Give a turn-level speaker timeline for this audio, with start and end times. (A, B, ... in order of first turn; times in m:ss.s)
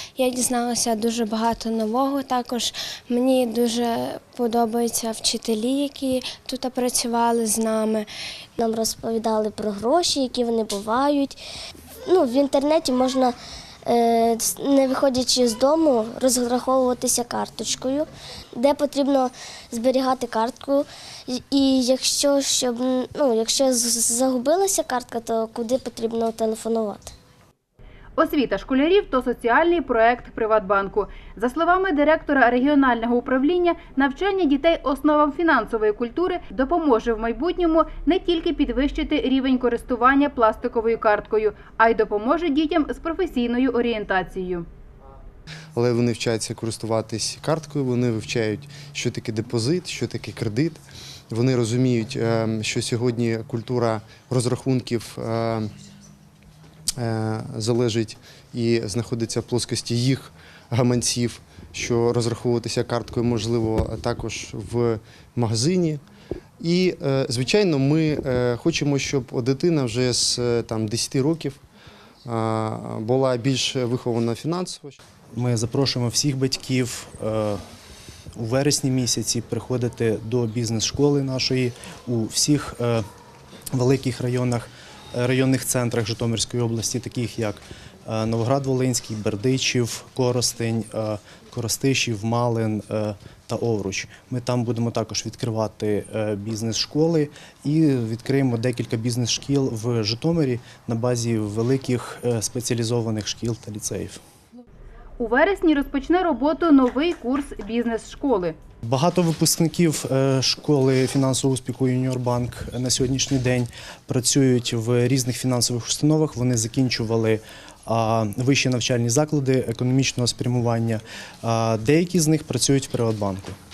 0:00.2-0:08.1 A
0:08.6-0:11.4 B
0:12.1-0:27.1 B
0:28.2-0:44.7 C
0:45.8-0:55.7 D
0:57.0-1:06.0 D
1:06.6-1:11.6 D
1:12.2-1:15.0 D
1:15.4-1:17.6 E
1:18.4-1:23.0 E
1:23.8-1:44.2 E
1:45.2-1:48.6 C
1:48.9-2:03.6 E